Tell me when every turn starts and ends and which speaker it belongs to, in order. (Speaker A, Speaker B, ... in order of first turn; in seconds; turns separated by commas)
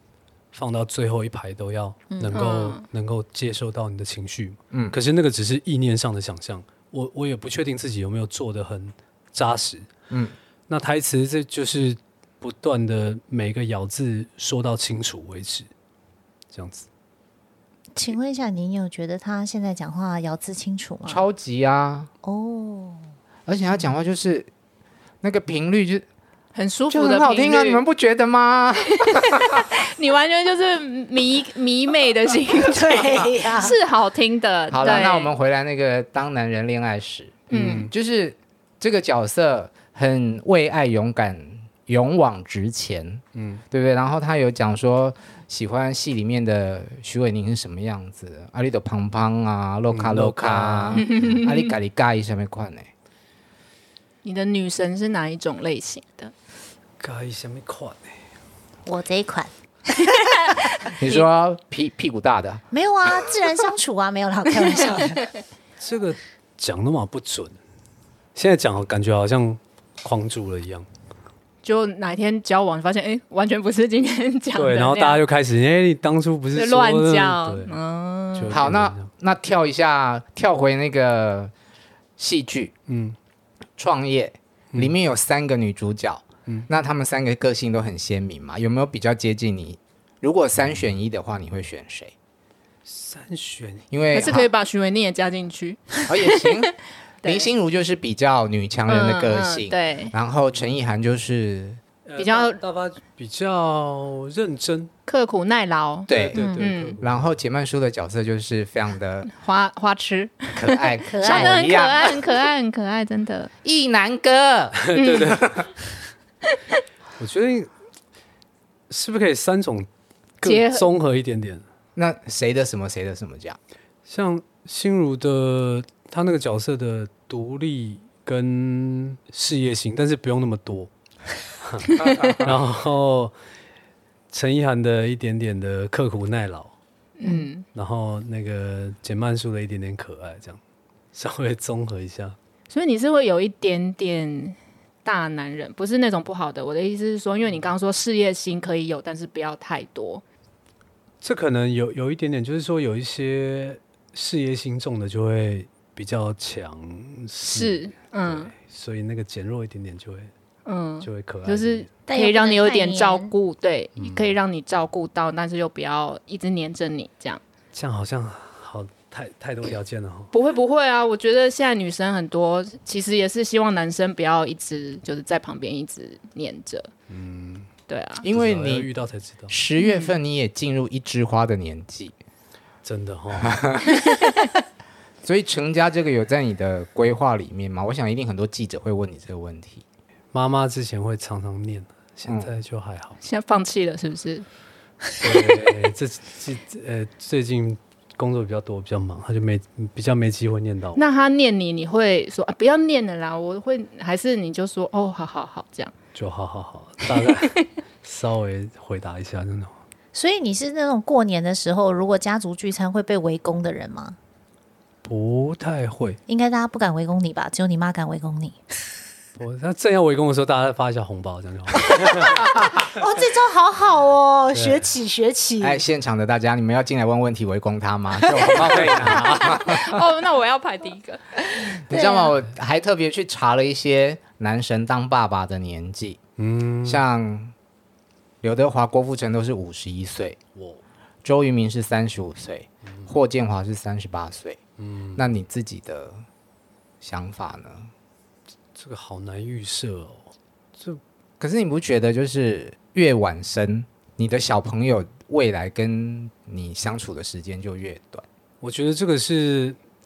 Speaker A: 0.5-9.9, Speaker B: 2.1-2.4, Speaker C: 2.3-2.8, Speaker D: 4.7-5.0, Speaker D: 10.1-10.3, Speaker A: 10.7-15.7, Speaker A: 16.5-16.9, Speaker B: 17.9-21.2, Speaker D: 21.1-22.1, Speaker B: 22.2-23.1, Speaker D: 23.4-24.5, Speaker D: 25.2-26.1, Speaker C: 26.5-27.8, Speaker D: 26.9-29.6, Speaker C: 29.0-35.3, Speaker B: 32.6-33.8, Speaker D: 34.7-52.9, Speaker A: 37.5-37.9, Speaker C: 37.5-37.9, Speaker A: 43.3-43.6, Speaker A: 49.9-51.3, Speaker C: 51.0-51.7, Speaker C: 54.2-56.3, Speaker A: 57.0-58.1, Speaker B: 58.9-60.1, Speaker D: 61.0-62.6, Speaker B: 62.7-65.3, Speaker A: 65.8-67.6, Speaker A: 68.3-70.9, Speaker C: 71.6-75.2, Speaker A: 74.5-77.7, Speaker C: 76.5-78.6, Speaker A: 78.3-79.1, Speaker D: 78.5-81.5, Speaker D: 82.2-82.7, Speaker A: 82.9-83.2, Speaker D: 83.8-92.1, Speaker A: 92.8-93.8, Speaker D: 93.9-94.5, Speaker C: 94.1-96.6, Speaker D: 96.1-96.7, Speaker C: 97.2-97.5, Speaker D: 97.2-101.8, Speaker C: 98.9-100.1, Speaker A: 102.0-104.9, Speaker C: 102.2-102.6, Speaker C: 105.1-107.0, Speaker D: 106.1-106.4, Speaker A: 106.1-107.3, Speaker B: 106.3-106.7, Speaker D: 107.0-109.3, Speaker C: 109.3-113.5, Speaker D: 110.5-112.2, Speaker B: 111.0-111.8, Speaker D: 113.6-115.7, Speaker A: 114.8-115.4, Speaker C: 115.0-115.4, Speaker A: 117.2-117.7, Speaker A: 118.9-119.9, Speaker A: 120.4-121.6, Speaker C: 120.4-120.8, Speaker D: 122.0-123.6, Speaker A: 124.0-130.9, Speaker A: 131.6-133.3, Speaker D: 132.2-132.5, Speaker A: 134.3-136.7, Speaker C: 137.2-137.6, Speaker B: 137.2-137.5, Speaker A: 137.7-140.6, Speaker A: 141.1-142.4, Speaker C: 142.7-150.2, Speaker A: 151.2-160.3, Speaker C: 157.5-158.5, Speaker C: 160.6-167.4, Speaker A: 161.0-161.9, Speaker B: 162.1-163.3, Speaker A: 164.0-164.3, Speaker A: 167.7-170.3, Speaker C: 170.3-176.9, Speaker A: 177.1-177.7, Speaker C: 177.9-178.2, Speaker D: 178.2-178.9, Speaker A: 178.2-179.5, Speaker D: 179.5-182.1, Speaker C: 179.8-180.1, Speaker A: 182.8-183.6, Speaker D: 183.4-184.1, Speaker D: 185.2-189.8, Speaker A: 190.3-193.2, Speaker C: 193.2-194.4, Speaker A: 195.2-201.0, Speaker C: 200.9-205.9, Speaker A: 206.1-209.8, Speaker B: 210.1-214.2, Speaker A: 215.0-216.2, Speaker B: 216.3-218.6, Speaker A: 219.3-222.4, Speaker B: 222.8-225.8, Speaker A: 224.5-224.8, Speaker D: 225.6-230.0, Speaker C: 229.0-231.4, Speaker D: 231.9-236.2, Speaker B: 231.9-232.3, Speaker A: 236.4-237.0, Speaker D: 236.8-237.5, Speaker D: 238.4-240.4, Speaker A: 240.5-240.8, Speaker D: 241.2-244.6, Speaker A: 244.8-245.2, Speaker D: 245.2-246.2, Speaker D: 247.0-247.9, Speaker A: 248.7-251.0, Speaker D: 251.4-258.2, Speaker A: 258.6-259.8